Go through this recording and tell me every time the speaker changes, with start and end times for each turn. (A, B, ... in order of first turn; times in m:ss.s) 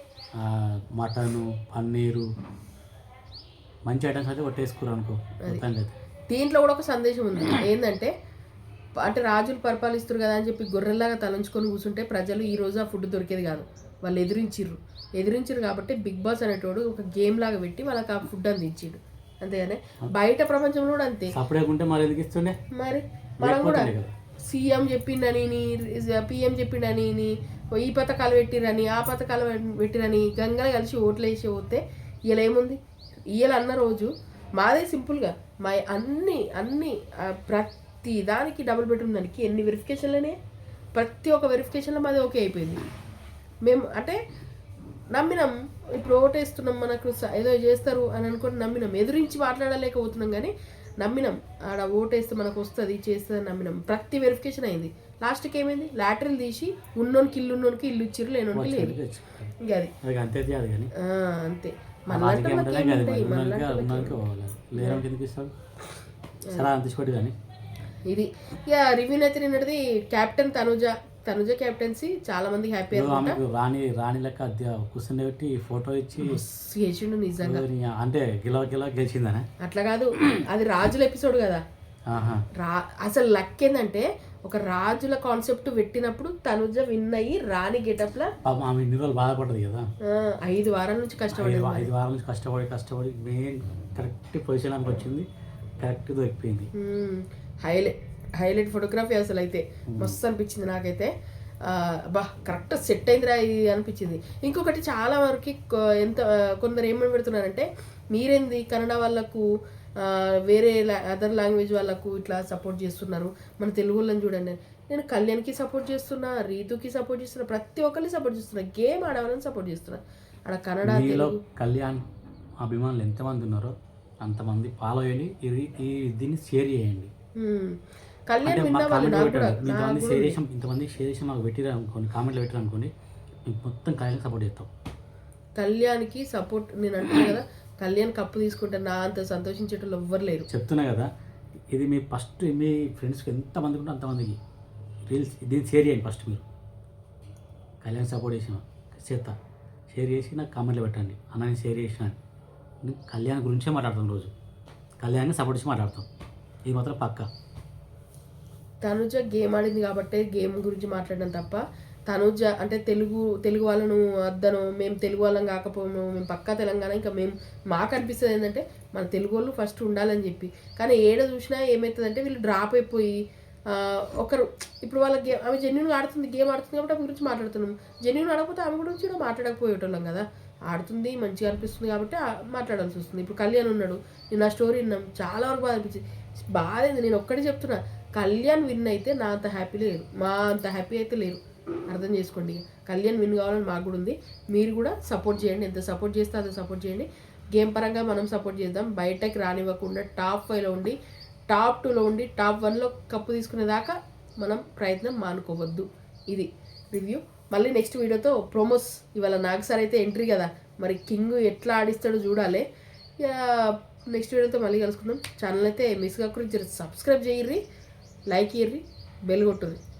0:00.4-0:02.3 A
0:03.9-0:05.9 A
0:06.3-0:08.1 B
0:09.0-0:21.3 B
0:21.3-0:22.6 A
0:22.7-0:23.9 B
0:23.4-0:24.1 A
0:24.5-0:32.8 B
0:33.3-0:40.4 B
0:40.9-0:42.8 B
0:43.6-0:44.2 B
0:45.1-0:59.0 B
0:58.5-1:00.9 A
0:59.6-0:59.9 B
1:01.0-1:04.2 B
1:02.1-1:05.5 A
1:04.8-1:05.0 B
1:06.5-1:07.3 A
1:08.1-1:13.4 B
1:12.9-1:16.4 A
1:16.2-1:17.6 B
1:17.4-1:19.4 A
1:19.6-1:21.6 B
1:22.1-1:22.4 A
1:22.6-1:28.3 B
1:28.4-1:29.8 A
1:30.1-1:31.9 B
1:31.3-1:35.2 A
1:35.8-1:36.7 A
1:36.8-1:41.1 B
1:41.7-1:49.4 B
1:50.0-2:01.4 B
2:00.8-2:02.0 A
2:02.6-2:07.1 A
2:07.4-2:07.8 B
2:08.3-2:10.4 B
2:08.4-2:12.9 A
2:13.4-2:14.7 A
2:15.6-2:20.5 B
2:20.5-2:21.1 A
2:21.7-2:24.4 A
2:25.1-2:26.4 A
2:27.8-2:29.3 A
2:29.9-2:32.2 A
2:32.8-2:34.3 A
2:35.0-2:36.0 A
2:36.7-2:37.2 A
2:38.8-2:53.2 B
2:53.7-3:11.4 B
3:11.9-3:21.0 B
3:21.5-3:32.6 B
3:33.2-3:37.6 B
3:38.3-3:39.8 B